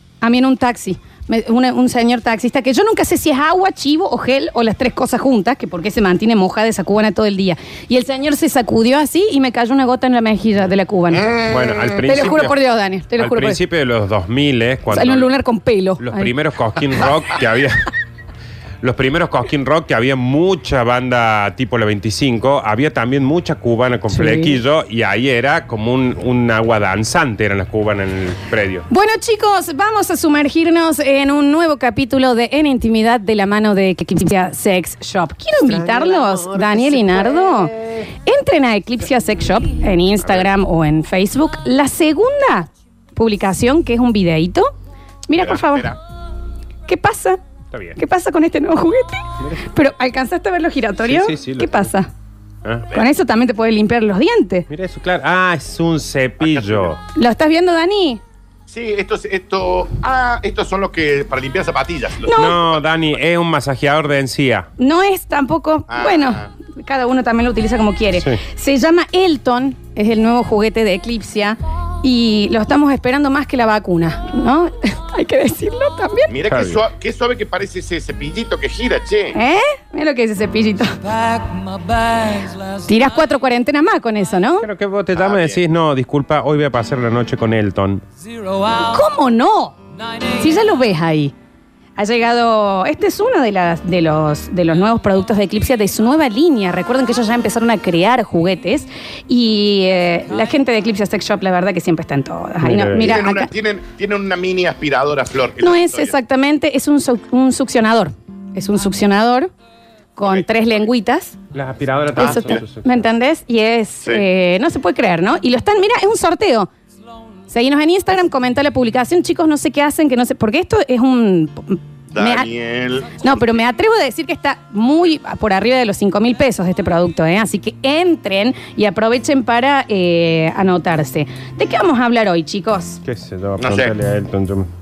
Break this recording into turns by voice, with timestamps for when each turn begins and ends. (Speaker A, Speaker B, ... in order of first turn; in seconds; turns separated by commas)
Speaker A: 0.2-11.4, Speaker B: 11.4-12.6, Speaker A: 12.0-13.6, Speaker B: 13.2-15.3, Speaker A: 14.9-16.3, Speaker B: 16.0-17.9, Speaker B: 18.8-28.9, Speaker A: 24.1-24.6, Speaker A: 28.9-44.7, Speaker B: 35.7-37.3, Speaker A: 45.3-45.9, Speaker C: 45.3-46.0, Speaker A: 46.9-47.4, Speaker B: 47.7-48.0, Speaker A: 48.0-52.1, Speaker B: 51.0-51.9, Speaker B: 52.6-52.9, Speaker A: 52.9-54.7, Speaker B: 54.7-57.0, Speaker C: 56.4-57.0, Speaker A: 57.1-58.2, Speaker C: 58.7-62.8, Speaker A: 62.2-62.6, Speaker B: 62.3-64.7, Speaker A: 64.8-76.3, Speaker C: 65.9-66.5, Speaker C: 76.3-79.4, Speaker B: 76.5-76.8, Speaker A: 79.3-81.0, Speaker A: 82.8-84.7, Speaker B: 84.6-88.0, Speaker C: 85.2-85.6, Speaker A: 88.8-89.8, Speaker A: 90.3-91.3, Speaker A: 92.0-103.5, Speaker B: 102.6-103.2, Speaker C: 102.9-106.2, Speaker A: 105.6-109.5, Speaker A: 110.2-111.3, Speaker C: 110.2-110.9, Speaker B: 111.5-113.0, Speaker A: 112.2-116.7, Speaker C: 112.2-112.6, Speaker A: 117.5-122.5, Speaker C: 122.1-123.6, Speaker A: 123.2-133.0, Speaker B: 133.0-134.7, Speaker C: 133.6-133.9